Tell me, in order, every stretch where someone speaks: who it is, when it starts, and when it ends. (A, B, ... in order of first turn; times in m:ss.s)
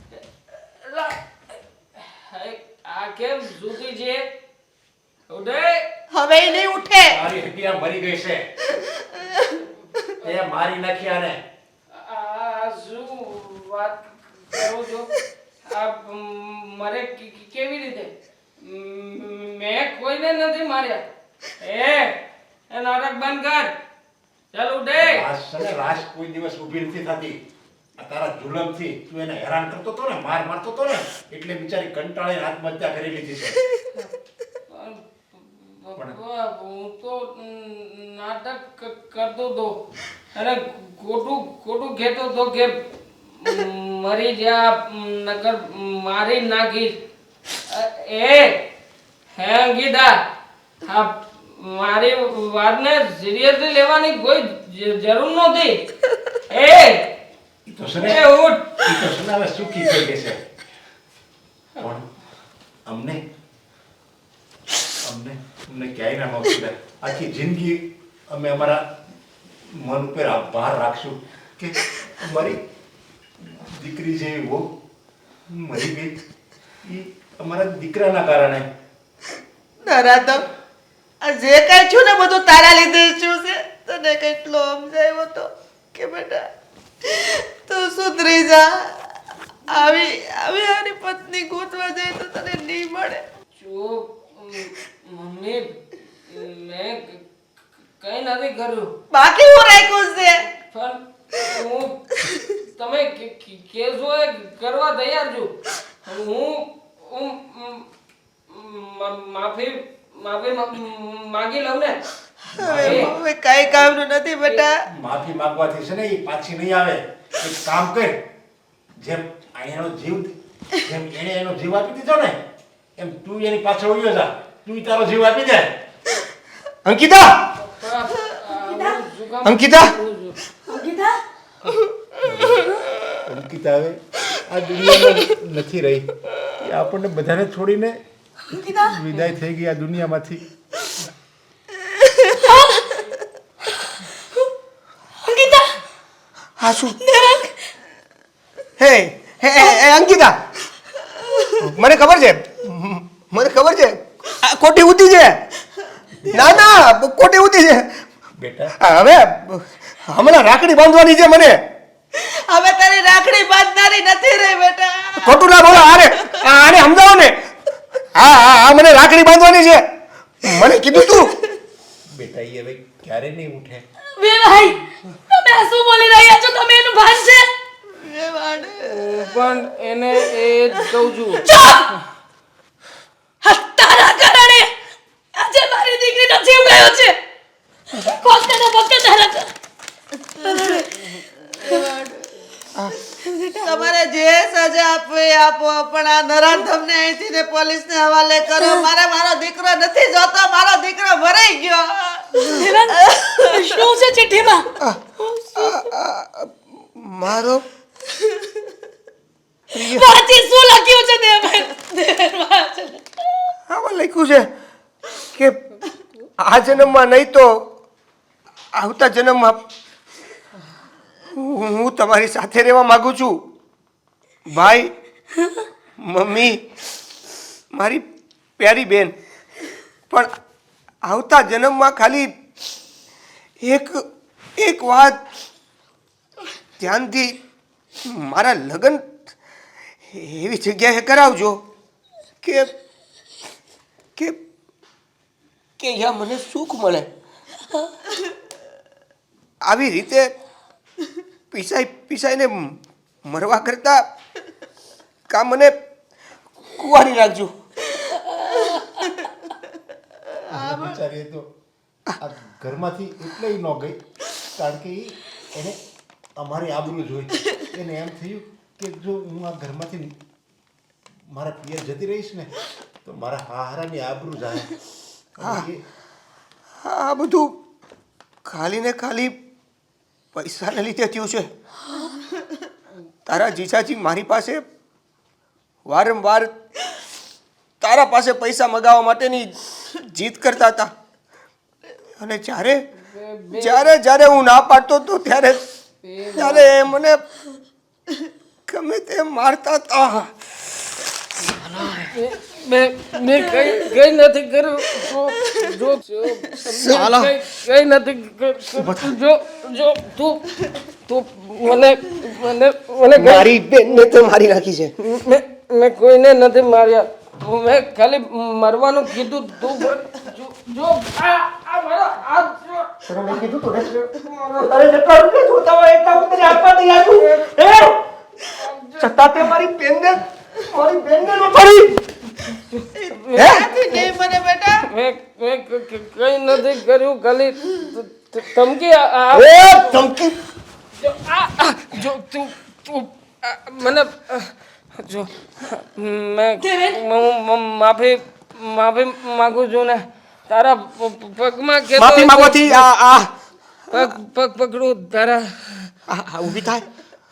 0:00.8-0:01.2 A
0:02.0-0:04.2 A
0:05.3-0:05.8 A
0:06.1-0:07.2 B
0:07.1-0:08.4 C
0:09.0-0:09.5 B
0:10.2-0:11.4 C
0:11.9-0:15.1 A
0:15.7-0:21.0 A
0:21.6-0:23.7 A
0:24.5-0:25.2 A
0:25.0-0:27.4 C
0:28.0-0:33.6 C
0:34.7-0:39.8 A
0:40.3-0:42.8 A
0:43.4-0:46.9 A
0:47.7-0:48.6 A
0:49.3-0:50.2 A
0:50.8-0:55.8 A
0:56.5-0:57.1 A
0:57.6-0:58.2 C
0:58.0-0:58.8 A
0:58.8-1:00.4 C
1:01.8-1:02.1 C
1:02.8-1:03.2 C
1:05.0-1:08.8 C
1:09.7-1:12.6 C
1:13.4-1:14.6 C
1:15.5-1:16.2 C
1:16.8-1:18.6 C
1:19.8-1:20.5 B
1:21.2-1:26.5 B
1:27.0-1:28.9 B
1:29.7-1:33.2 B
1:33.6-1:37.2 A
1:38.0-1:38.9 A
1:39.1-1:40.4 B
1:40.5-1:45.5 A
1:46.0-1:47.9 A
1:48.5-1:52.0 A
1:52.5-1:54.7 B
1:52.6-1:53.1 C
1:52.6-1:53.2 A
1:53.7-1:54.0 A
1:54.9-1:58.2 C
1:59.0-2:02.4 C
2:03.0-2:05.7 C
2:06.8-2:07.5 D
2:07.6-2:10.4 A
2:08.7-2:09.0 E
2:09.4-2:09.9 D
2:10.6-2:11.2 E
2:12.2-2:16.1 C
2:16.6-2:18.0 C
2:18.5-2:19.0 E
2:18.7-2:20.4 C
2:22.0-2:22.2 B
2:22.4-2:23.0 E
2:25.2-2:25.7 E
2:26.6-2:27.0 D
2:27.0-2:27.5 E
2:28.8-2:30.4 D
2:31.6-2:35.4 D
2:36.3-2:38.0 D
2:38.4-2:38.7 C
2:38.8-2:41.6 D
2:42.1-2:46.6 B
2:45.2-2:47.4 D
2:48.1-2:49.8 D
2:50.4-2:51.3 D
2:51.0-2:51.5 B
2:52.1-2:53.8 C
2:54.2-2:57.5 E
2:57.9-2:59.4 B
2:58.8-3:01.5 A
3:01.4-3:01.9 E
3:03.4-3:04.7 E
3:05.3-3:07.2 E
3:07.9-3:09.5 E
3:10.4-3:10.8 E
3:11.6-3:12.2 B
3:13.4-3:23.8 B
3:22.4-3:24.7 E
3:25.5-3:27.6 D
3:29.7-3:33.2 E
3:29.7-3:30.1 D
3:33.7-3:34.5 D
3:35.3-3:35.6 D
3:36.4-3:37.5 D
3:38.7-3:39.6 D
3:41.3-3:43.4 D
3:44.4-3:44.9 D
3:46.0-3:46.6 D
3:47.7-3:48.0 D
3:48.6-3:49.1 D
3:51.0-3:52.3 D
3:53.6-3:54.0 D
3:54.6-3:55.2 D
3:56.8-3:57.4 D
3:58.0-3:59.0 D
4:00.1-4:01.6 D
4:02.4-4:02.7 D
4:05.8-4:07.1 D
4:09.6-4:10.3 D
4:11.5-4:14.0 D
4:15.3-4:15.7 D
4:16.6-4:17.5 D
4:20.4-4:21.0 B
4:20.5-4:21.5 C
4:22.2-4:24.0 C
4:24.6-4:25.8 C
4:26.4-4:30.1 C
4:31.3-4:32.5 C
4:33.0-4:34.8 C
4:35.4-4:35.8 C
4:35.4-4:35.7 D
4:36.8-4:37.5 D
4:38.4-4:39.4 D
4:40.3-4:41.5 D
4:43.2-4:44.6 D
4:45.8-4:46.6 D
4:47.8-4:50.9 D
4:52.2-4:52.8 D
4:53.0-4:53.9 A
4:53.5-4:55.6 D
4:56.0-4:56.8 A
4:56.3-4:57.2 D
4:58.7-5:00.3 D
5:01.5-5:02.1 D
5:02.1-5:13.5 A
5:06.6-5:07.3 D
5:08.8-5:09.1 D
5:13.1-5:14.9 D
5:15.0-5:23.0 A
5:23.1-5:28.0 D
5:26.5-5:27.6 A
5:28.5-5:29.6 A
5:29.0-5:32.1 D
5:32.5-5:34.1 A
5:32.9-5:34.8 B
5:33.4-5:33.6 D
5:34.8-5:40.0 A
5:39.3-5:40.4 D
5:41.0-5:52.9 A
5:46.6-5:47.0 E
5:52.0-5:53.3 D
5:53.9-5:55.9 A
5:56.1-5:56.9 D